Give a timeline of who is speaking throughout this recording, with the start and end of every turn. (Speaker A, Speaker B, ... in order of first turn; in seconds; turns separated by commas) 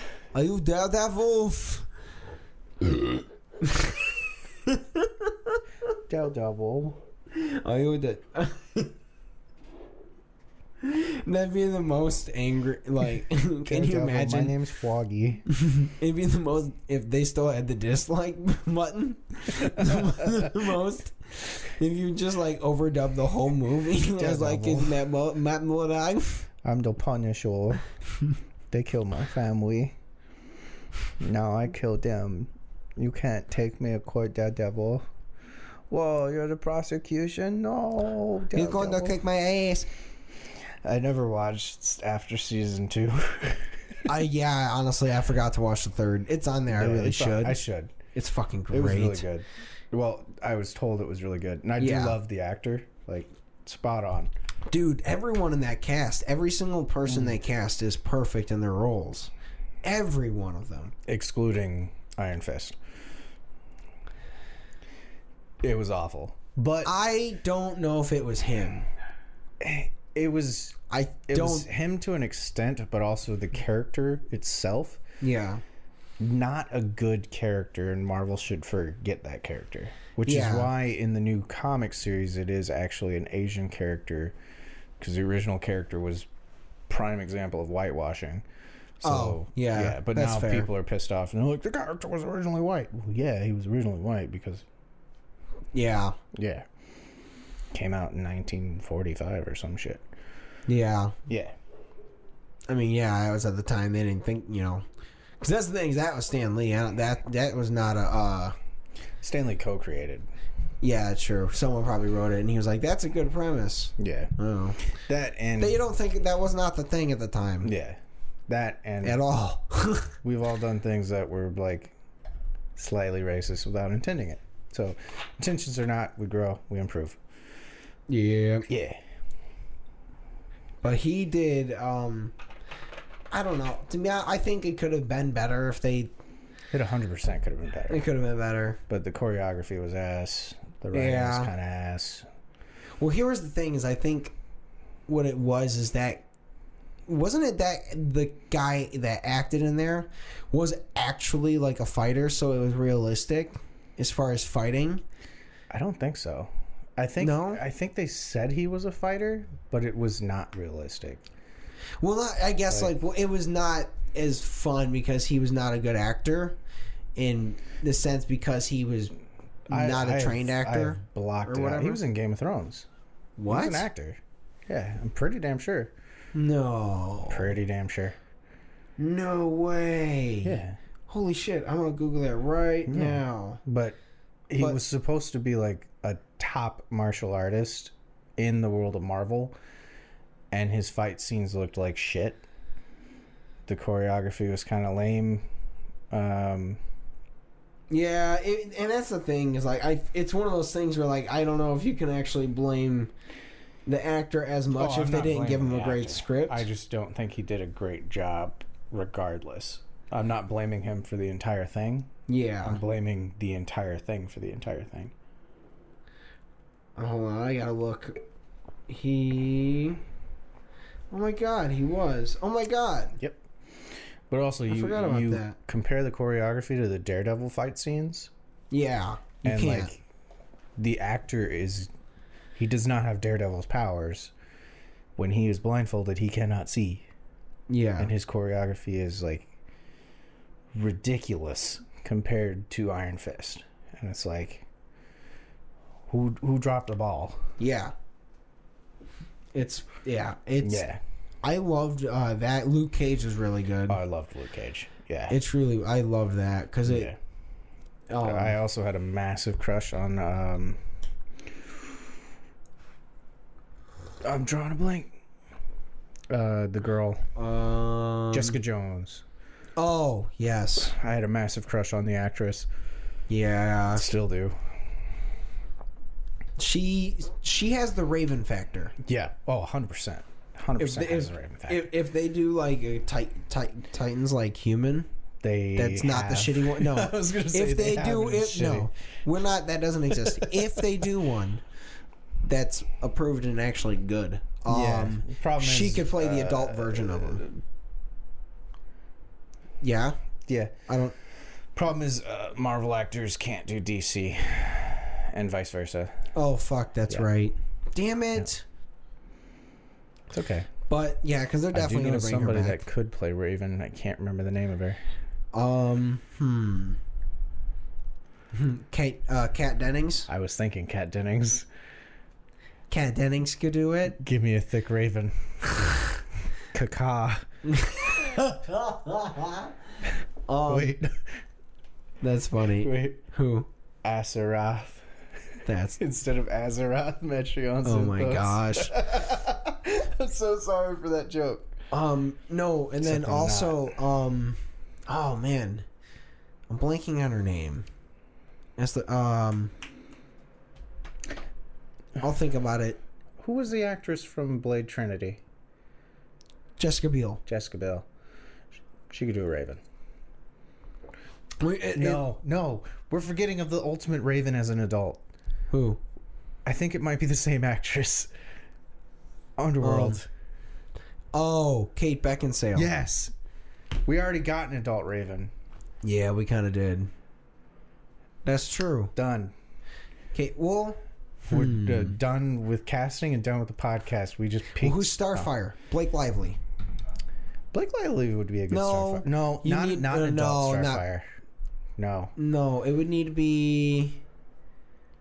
Speaker A: 0.3-1.9, Speaker A: 2.8-5.6, Speaker B: 6.1-7.0, Speaker A: 7.3-8.9, Speaker A: 10.8-14.5, Speaker B: 13.7-15.4, Speaker A: 15.6-26.5, Speaker B: 19.6-20.7, Speaker B: 24.2-25.0, Speaker B: 26.6-27.8, Speaker B: 28.7-29.9, Speaker B: 31.2-35.0, Speaker B: 35.9-39.2, Speaker A: 38.5-39.9, Speaker B: 40.8-44.1, Speaker A: 44.1-47.6, Speaker B: 46.7-48.0, Speaker A: 48.1-49.3, Speaker B: 48.7-54.3, Speaker A: 51.8-52.2, Speaker A: 54.7-59.3, Speaker B: 57.1-57.3, Speaker A: 59.8-60.9, Speaker B: 61.1-62.8, Speaker B: 65.6-66.9, Speaker A: 66.8-68.9, Speaker B: 69.6-75.0, Speaker A: 70.9-71.7, Speaker A: 75.2-75.6, Speaker B: 76.2-84.3, Speaker A: 80.2-80.7, Speaker B: 85.0-86.3, Speaker B: 86.9-88.5, Speaker B: 89.0-94.7, Speaker A: 89.0-90.7, Speaker A: 95.7-96.2, Speaker B: 96.3-96.7, Speaker B: 97.7-100.0, Speaker A: 100.7-101.2, Speaker B: 101.3-101.6, Speaker A: 102.7-104.8, Speaker A: 105.4-108.5, Speaker B: 109.2-110.3, Speaker A: 110.8-114.8, Speaker B: 114.0-114.3, Speaker B: 114.9-115.8, Speaker A: 115.6-117.7, Speaker B: 117.6-119.2, Speaker A: 119.0-120.1, Speaker B: 120.2-121.9, Speaker B: 122.8-127.2, Speaker A: 128.1-128.7, Speaker B: 128.7-129.0, Speaker A: 130.8-132.3, Speaker A: 133.3-136.1, Speaker B: 136.7-138.1, Speaker A: 137.9-138.8, Speaker B: 138.9-142.2, Speaker A: 140.9-141.5, Speaker A: 143.0-144.3, Speaker A: 145.1-146.2, Speaker A: 147.1-155.0, Speaker B: 155.7-161.2, Speaker A: 157.2-157.6, Speaker A: 162.0-166.6, Speaker A: 167.2-169.1, Speaker A: 169.7-172.0, Speaker B: 169.7-172.9, Speaker A: 173.4-173.9, Speaker B: 173.5-175.9, Speaker A: 176.3-177.5, Speaker B: 177.3-178.2, Speaker A: 179.0-183.6, Speaker B: 180.4-180.8, Speaker B: 182.9-184.0, Speaker B: 184.5-189.6, Speaker B: 190.5-192.4, Speaker B: 193.7-195.4, Speaker B: 196.1-196.8, Speaker A: 197.9-203.1, Speaker A: 203.9-206.7, Speaker B: 204.8-212.1, Speaker A: 212.3-212.8, Speaker B: 212.6-215.1, Speaker A: 217.0-218.2, Speaker A: 218.9-220.0, Speaker A: 221.1-223.2, Speaker B: 224.3-228.3, Speaker A: 224.7-225.6, Speaker A: 228.7-229.9, Speaker B: 229.4-230.0, Speaker B: 230.8-231.9, Speaker B: 232.6-234.3, Speaker B: 235.2-237.1, Speaker A: 237.7-238.1, Speaker B: 238.0-239.5, Speaker B: 240.7-244.7, Speaker B: 246.1-247.4, Speaker A: 247.6-247.9, Speaker A: 249.5-250.9, Speaker B: 250.6-251.0, Speaker A: 251.4-254.0, Speaker B: 253.9-255.4, Speaker A: 255.3-257.1, Speaker B: 256.9-257.2, Speaker A: 258.1-258.6, Speaker B: 258.2-260.8, Speaker B: 264.2-265.1, Speaker B: 266.3-267.2, Speaker A: 267.4-268.6, Speaker B: 268.3-269.2, Speaker A: 269.8-270.9, Speaker B: 270.9-272.7, Speaker A: 273.3-274.1, Speaker B: 274.0-274.6, Speaker A: 276.6-278.9, Speaker B: 279.0-281.9, Speaker A: 280.8-285.1, Speaker B: 285.4-288.9, Speaker A: 285.8-291.6, Speaker B: 290.1-291.1, Speaker A: 292.4-297.5, Speaker B: 294.7-297.6, Speaker A: 299.8-300.2, Speaker B: 300.5-300.9, Speaker A: 300.9-301.1, Speaker B: 301.8-306.2, Speaker A: 306.3-308.6, Speaker B: 310.3-310.7, Speaker A: 310.9-312.8, Speaker B: 311.7-315.0, Speaker A: 315.5-317.0, Speaker A: 318.5-320.3, Speaker B: 320.3-321.7, Speaker A: 322.9-324.2, Speaker B: 324.1-326.0, Speaker B: 326.7-327.5, Speaker A: 327.6-329.7, Speaker B: 328.1-328.4, Speaker A: 330.5-331.0, Speaker B: 330.7-331.4, Speaker A: 332.2-333.7, Speaker B: 332.8-333.2, Speaker B: 334.0-335.0, Speaker A: 335.7-336.0, Speaker B: 336.0-341.7, Speaker A: 337.8-339.0, Speaker A: 341.9-345.9, Speaker B: 343.0-343.8, Speaker A: 346.7-347.9, Speaker A: 348.8-349.7, Speaker A: 352.2-353.0, Speaker B: 353.4-355.4, Speaker A: 356.8-357.4, Speaker B: 357.5-358.1, Speaker B: 359.1-359.8, Speaker A: 361.6-362.3, Speaker B: 361.9-365.2, Speaker A: 365.7-366.0, Speaker B: 366.6-368.3, Speaker B: 369.6-370.3, Speaker A: 369.8-370.2, Speaker A: 371.3-372.9, Speaker B: 372.8-373.3, Speaker B: 374.1-375.5, Speaker A: 376.0-377.1, Speaker A: 378.4-379.1, Speaker B: 379.1-379.5, Speaker A: 380.3-382.2, Speaker B: 381.5-385.5, Speaker A: 384.8-386.6, Speaker B: 387.7-391.2, Speaker A: 388.7-391.0, Speaker B: 392.0-392.3, Speaker A: 392.4-394.2